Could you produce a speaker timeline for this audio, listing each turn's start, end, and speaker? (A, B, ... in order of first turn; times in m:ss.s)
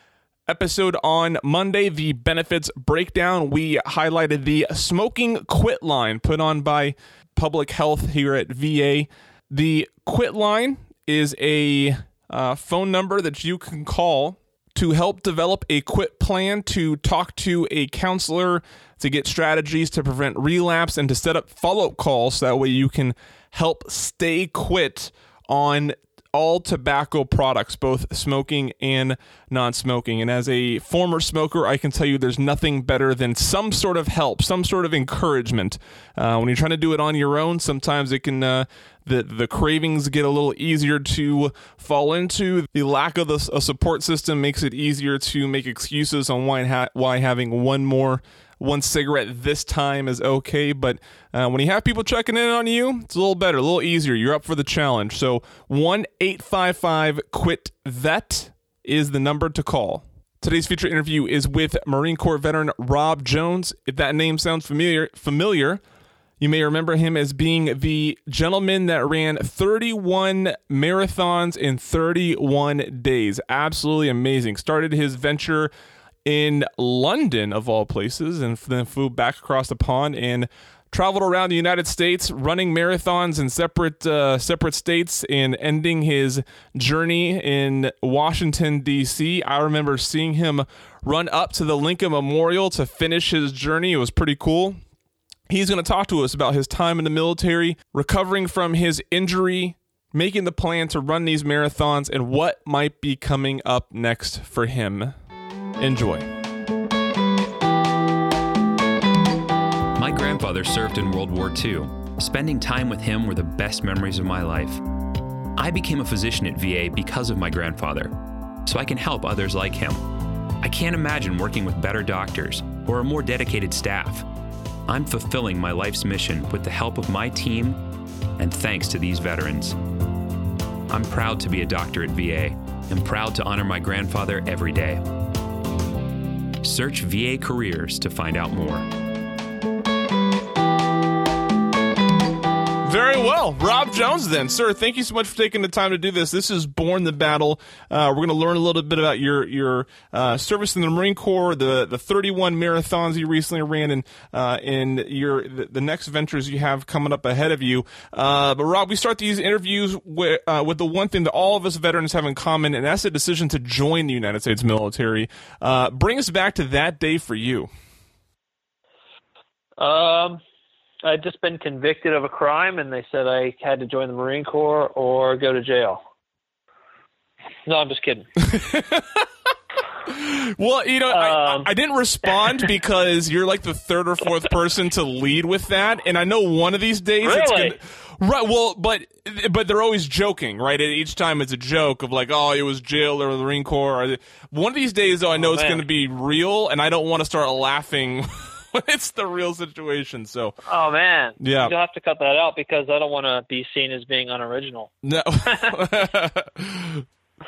0:00.5-1:05.8 A
1:06.4-1:15.7 A
1:16.2-1:34.8 A
1:35.5-1:45.2 A
1:45.8-1:46.3 A
1:50.0-1:54.8 B
1:55.6-2:00.1 B
2:00.6-2:04.3 B
2:04.9-2:07.8 B
2:08.4-2:09.8 B
2:10.9-2:15.1 B
2:16.6-2:18.9 B
2:22.8-2:47.7 A
2:49.8-2:50.4 C
2:51.0-2:56.0 C
2:57.7-2:58.3 C
2:58.4-2:59.3 A
3:00.0-3:20.6 A
3:01.1-3:01.7 C
3:07.2-3:07.8 C
3:15.4-3:15.8 C
3:20.7-3:24.9 C
3:21.4-3:21.7 A
3:25.0-3:27.0 A
3:25.5-3:25.7 C